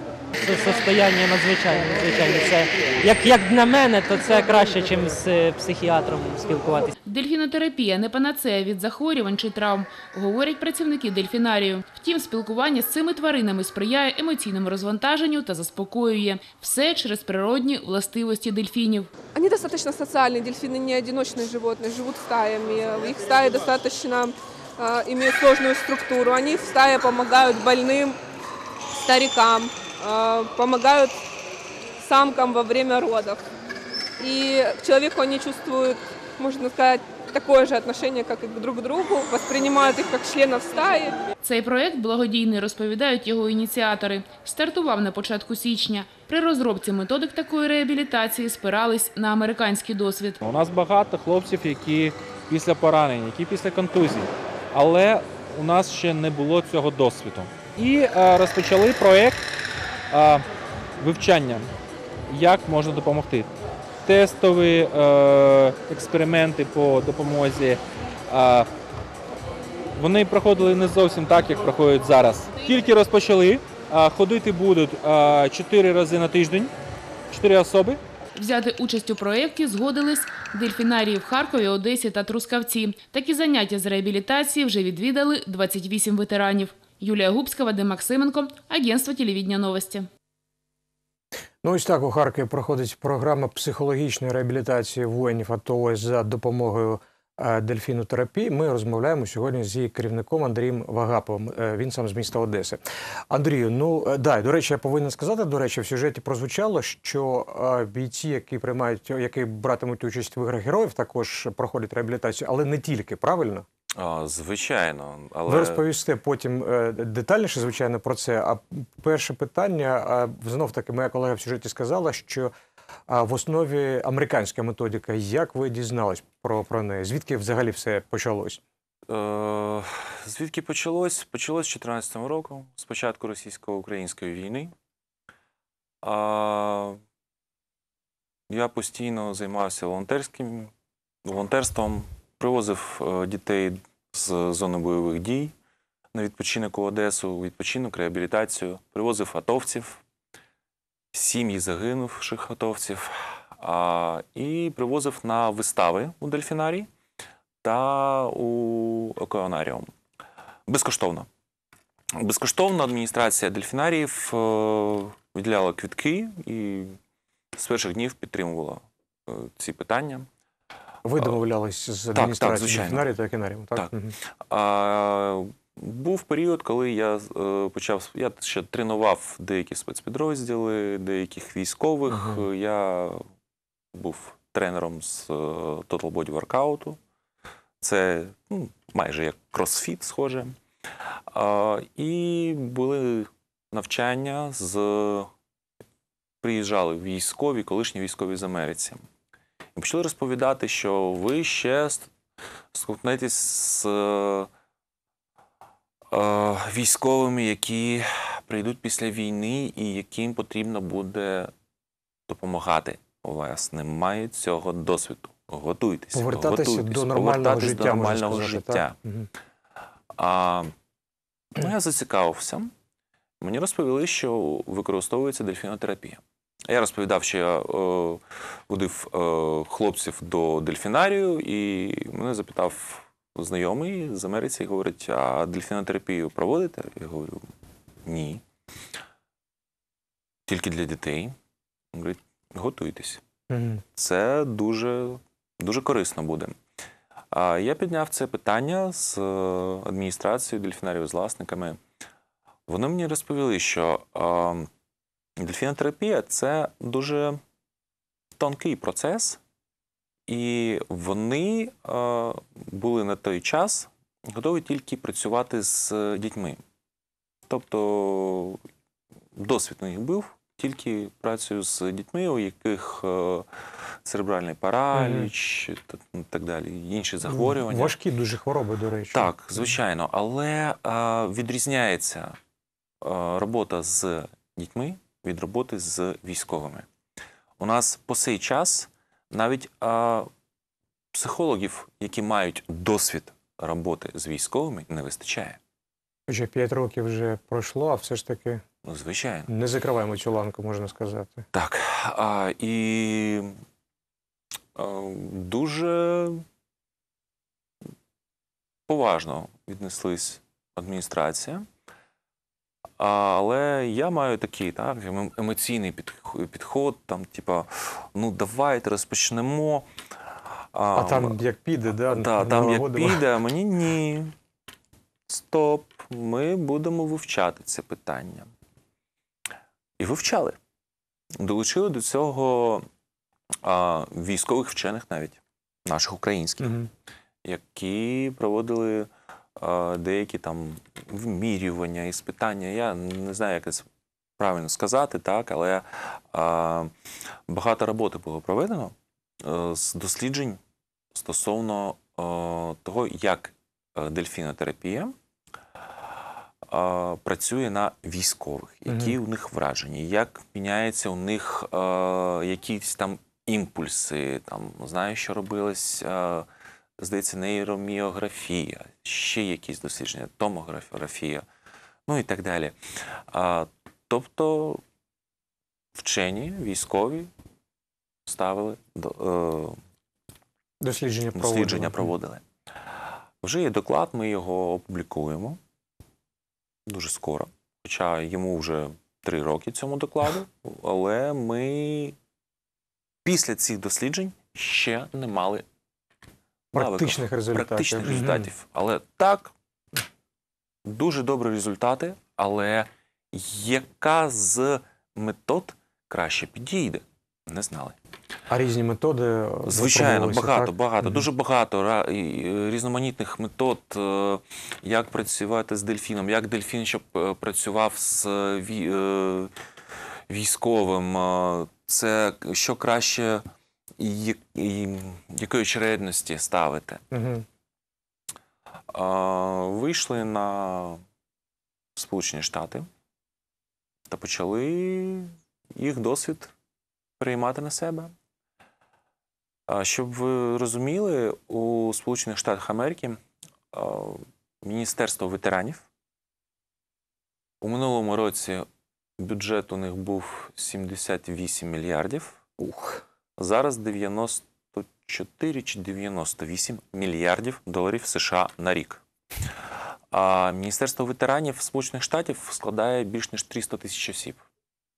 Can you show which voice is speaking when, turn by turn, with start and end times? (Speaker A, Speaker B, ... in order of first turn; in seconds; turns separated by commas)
Speaker A: 0.4-6.9, Speaker B: 7.0-19.1, Speaker C: 19.3-28.2, Speaker C: 29.0-31.2, Speaker C: 32.0-33.4, Speaker C: 34.2-41.2, Speaker B: 41.4-50.4, Speaker D: 50.4-59.4, Speaker D: 60.1-60.4, Speaker D: 61.0-61.7, Speaker D: 62.3-63.5, Speaker D: 64.0-68.7, Speaker D: 70.0-76.7, Speaker D: 77.3-78.0, Speaker B: 78.3-90.1, Speaker E: 91.6-113.7, Speaker F: 113.9-115.8, Speaker E: 115.5-122.5, Speaker E: 123.1-128.6, Speaker F: 129.1-134.7, Speaker F: 136.0-137.0, Speaker F: 138.5-140.7, Speaker F: 141.2-145.5, Speaker F: 146.1-150.0, Speaker F: 151.1-156.9, Speaker F: 157.6-159.9, Speaker F: 160.7-161.3, Speaker F: 162.1-167.0, Speaker F: 167.5-170.3, Speaker E: 171.0-174.1, Speaker F: 172.1-173.1, Speaker F: 173.7-183.2, Speaker E: 182.1-182.4, Speaker F: 183.9-187.0, Speaker F: 187.8-190.5, Speaker F: 191.3-195.3, Speaker F: 196.4-199.0, Speaker F: 199.8-202.1, Speaker F: 202.7-204.5, Speaker F: 206.1-211.5, Speaker F: 212.3-218.9, Speaker E: 216.1-219.3, Speaker F: 220.2-220.7, Speaker F: 221.5-222.7, Speaker F: 223.4-237.5, Speaker F: 238.0-238.4, Speaker F: 240.5-241.3, Speaker F: 241.9-243.2, Speaker E: 243.5-243.8, Speaker F: 243.9-246.6, Speaker F: 247.3-251.8, Speaker F: 252.7-254.7, Speaker F: 255.4-257.4, Speaker F: 258.4-259.4, Speaker F: 260.3-266.6, Speaker F: 267.5-268.6, Speaker F: 269.3-273.5, Speaker F: 274.0-277.9, Speaker E: 274.9-275.3, Speaker E: 277.2-279.7, Speaker F: 279.1-282.4, Speaker F: 283.0-286.9, Speaker F: 287.6-290.3, Speaker F: 291.1-295.6, Speaker E: 296.3-298.6, Speaker F: 298.8-299.5, Speaker E: 299.5-301.4, Speaker F: 301.5-303.6, Speaker F: 304.7-306.4, Speaker F: 308.9-311.6, Speaker F: 313.0-319.9, Speaker F: 320.7-321.4, Speaker E: 320.9-323.2, Speaker F: 322.1-324.3, Speaker F: 325.3-328.5, Speaker F: 330.0-330.6, Speaker F: 331.4-332.9, Speaker F: 333.6-336.8, Speaker E: 336.6-336.9, Speaker F: 337.4-343.9, Speaker F: 344.4-346.9, Speaker F: 347.5-350.6, Speaker F: 351.1-355.1, Speaker F: 356.7-366.5, Speaker E: 358.9-359.1, Speaker F: 367.0-371.4, Speaker F: 372.1-372.8, Speaker F: 373.3-374.8, Speaker F: 375.9-377.3, Speaker F: 378.2-379.8, Speaker E: 380.8-382.1, Speaker F: 381.3-382.4, Speaker F: 383.4-385.6, Speaker F: 386.9-392.1, Speaker F: 393.2-395.6, Speaker E: 396.7-398.5, Speaker F: 396.7-399.5, Speaker F: 400.8-407.9, Speaker E: 408.5-411.2, Speaker F: 409.7-419.5, Speaker F: 420.3-423.4, Speaker F: 424.0-427.0, Speaker E: 427.1-427.4, Speaker F: 428.9-431.0, Speaker F: 431.9-432.9, Speaker F: 434.1-436.5, Speaker F: 437.2-438.1, Speaker F: 439.7-443.2, Speaker F: 443.7-445.9, Speaker F: 447.6-448.6, Speaker F: 449.2-452.4, Speaker E: 452.6-453.0, Speaker F: 453.4-459.0, Speaker F: 460.1-464.4